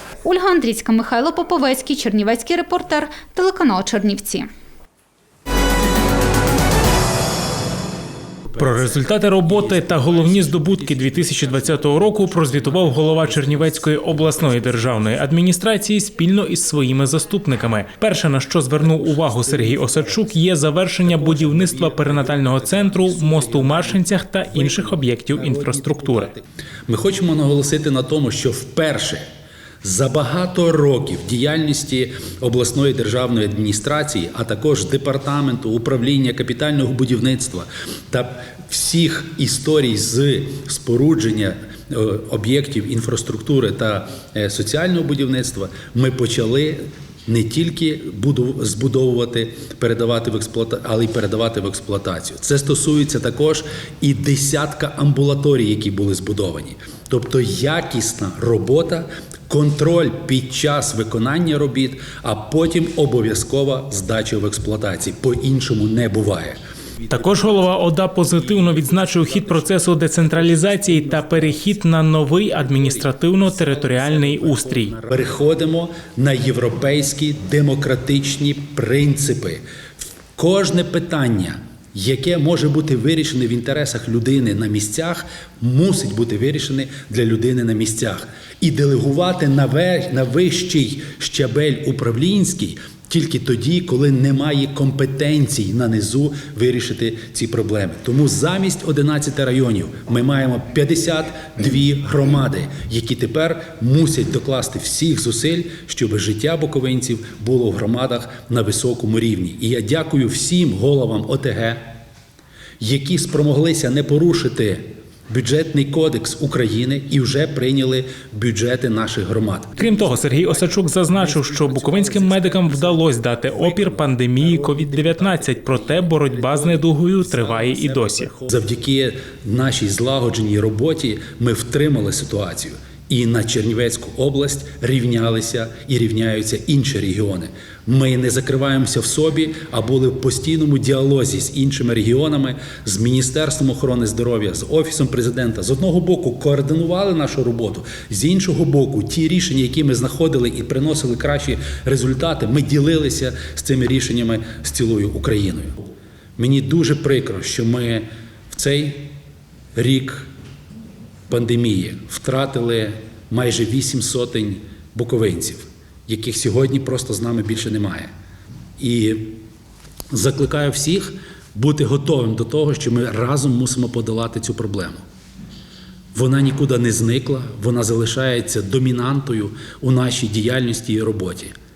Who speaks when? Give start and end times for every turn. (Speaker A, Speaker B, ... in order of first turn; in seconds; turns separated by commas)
Speaker A: 0.2-4.5, Speaker B: 8.5-15.3, Speaker C: 8.6-26.3, Speaker B: 18.7-29.2, Speaker B: 29.8-79.6, Speaker C: 67.1-75.0, Speaker B: 80.4-111.8, Speaker B: 112.8-155.8, Speaker C: 119.8-128.3, Speaker B: 156.4-159.1, Speaker B: 159.8-160.3, Speaker B: 161.3-168.1, Speaker B: 168.8-169.4, Speaker B: 170.1-175.0, Speaker B: 176.2-181.5